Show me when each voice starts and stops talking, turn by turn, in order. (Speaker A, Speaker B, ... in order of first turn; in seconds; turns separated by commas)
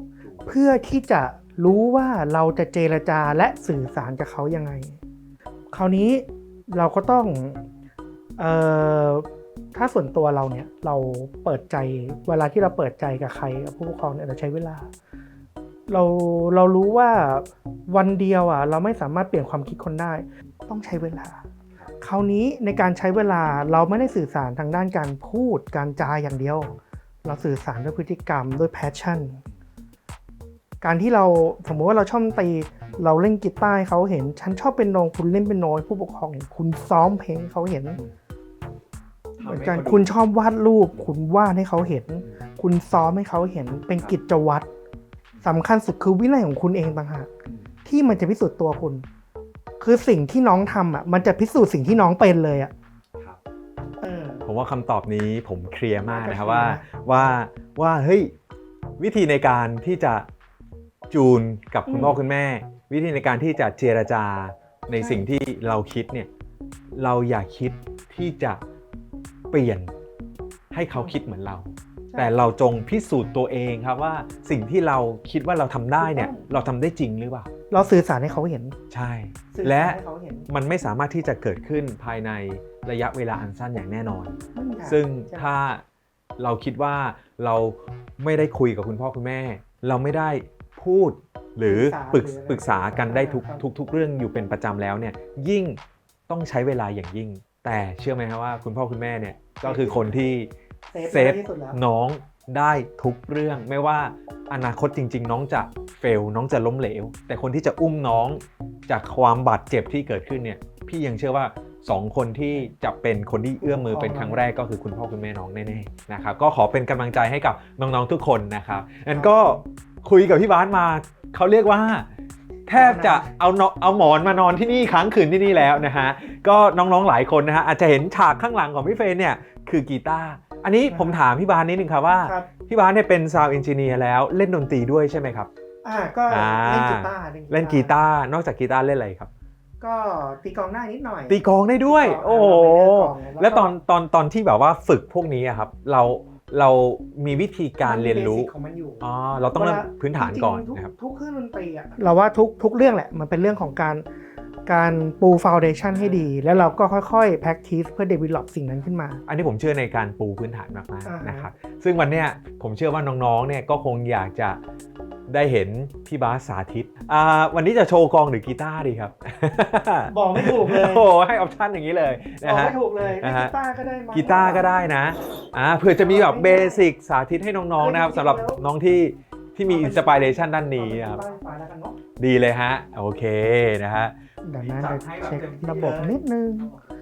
Speaker A: 0.2-0.5, Speaker B: 0.5-5.0, Speaker B: 5.7-7.6, Speaker B: 8.4-14.9, Speaker B: 15.9-21.4, Speaker B: 22.0-29.4, Speaker B: 30.8-38.0, Speaker A: 39.4-40.1, Speaker B: 39.4-44.7, Speaker B: 45.4-47.3, Speaker A: 47.5-47.8, Speaker B: 47.9-49.0, Speaker B: 49.8-52.7, Speaker B: 54.0-54.5, Speaker A: 54.5-58.3, Speaker B: 56.1-57.3, Speaker A: 59.0-60.3, Speaker A: 61.1-66.3, Speaker B: 61.9-62.2, Speaker B: 65.0-65.2, Speaker A: 66.9-68.6, Speaker A: 69.5-69.9, Speaker A: 70.7-77.5, Speaker B: 72.1-72.3, Speaker B: 76.0-76.4, Speaker B: 77.7-78.8, Speaker A: 78.9-85.8, Speaker B: 79.5-80.5, Speaker B: 84.5-85.5, Speaker A: 86.4-122.1, Speaker B: 91.7-93.6, Speaker B: 99.6-100.2, Speaker B: 100.9-101.8, Speaker B: 113.6-114.5, Speaker B: 119.1-119.6, Speaker A: 122.7-135.5, Speaker B: 122.7-123.3, Speaker B: 130.9-131.2, Speaker B: 132.2-132.5, Speaker B: 135.8-137.9, Speaker A: 136.3-139.3, Speaker B: 139.8-143.7, Speaker A: 141.3-148.5, Speaker B: 147.8-154.0, Speaker A: 149.0-150.9, Speaker B: 154.7-159.2, Speaker A: 155.9-156.2, Speaker A: 159.3-164.6, Speaker B: 161.0-161.5, Speaker A: 165.3-173.5, Speaker B: 170.1-171.1, Speaker B: 172.4-174.7, Speaker A: 174.1-181.2, Speaker B: 176.0-176.8, Speaker B: 177.8-178.6, Speaker B: 179.7-182.0, Speaker A: 182.2-186.2, Speaker B: 184.4-186.7